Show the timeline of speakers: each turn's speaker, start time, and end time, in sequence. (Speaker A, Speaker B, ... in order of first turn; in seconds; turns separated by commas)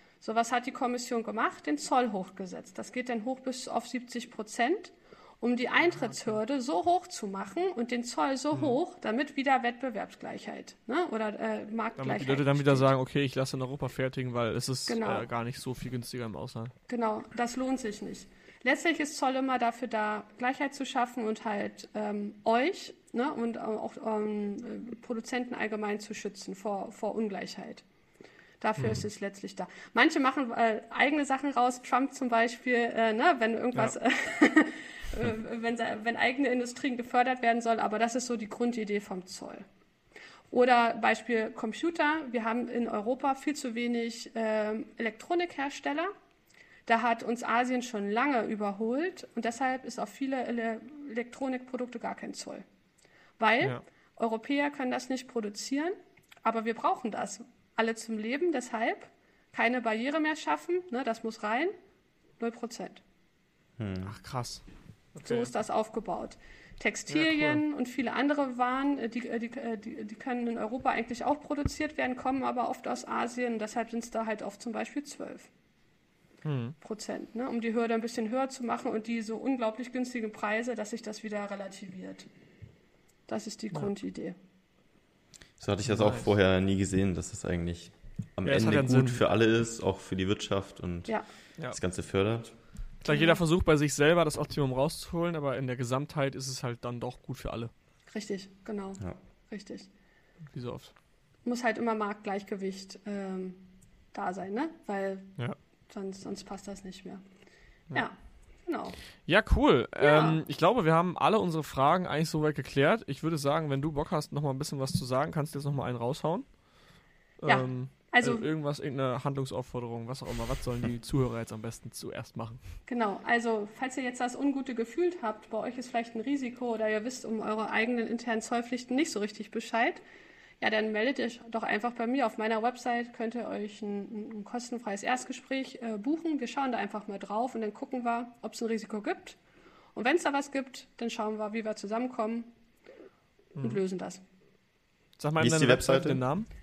Speaker A: 0.2-12.9, Speaker B: 8.5-8.8, Speaker B: 12.0-16.7, Speaker A: 14.9-15.3, Speaker A: 16.9-27.8, Speaker A: 28.6-39.6, Speaker A: 40.5-46.1, Speaker A: 46.9-52.6, Speaker A: 53.4-61.7, Speaker A: 62.4-63.0, Speaker C: 63.8-64.2, Speaker B: 64.0-65.5, Speaker A: 65.2-75.5, Speaker B: 67.1-67.6, Speaker B: 76.4-76.8, Speaker A: 76.8-82.3, Speaker A: 83.3-84.3, Speaker C: 85.6-92.5, Speaker B: 85.8-86.3, Speaker B: 88.4-89.2, Speaker B: 93.0-97.7, Speaker A: 93.1-93.4, Speaker A: 98.1-99.9, Speaker B: 100.5-100.9, Speaker A: 101.4-105.4, Speaker A: 105.9-107.2, Speaker A: 107.9-109.0, Speaker B: 109.2-116.6, Speaker A: 110.0-110.4, Speaker B: 117.4-122.6, Speaker A: 117.5-118.4, Speaker A: 122.9-130.0, Speaker A: 130.6-139.4, Speaker A: 139.9-142.5, Speaker B: 143.6-143.8, Speaker A: 143.6-144.2, Speaker B: 145.2-146.5, Speaker C: 145.4-146.2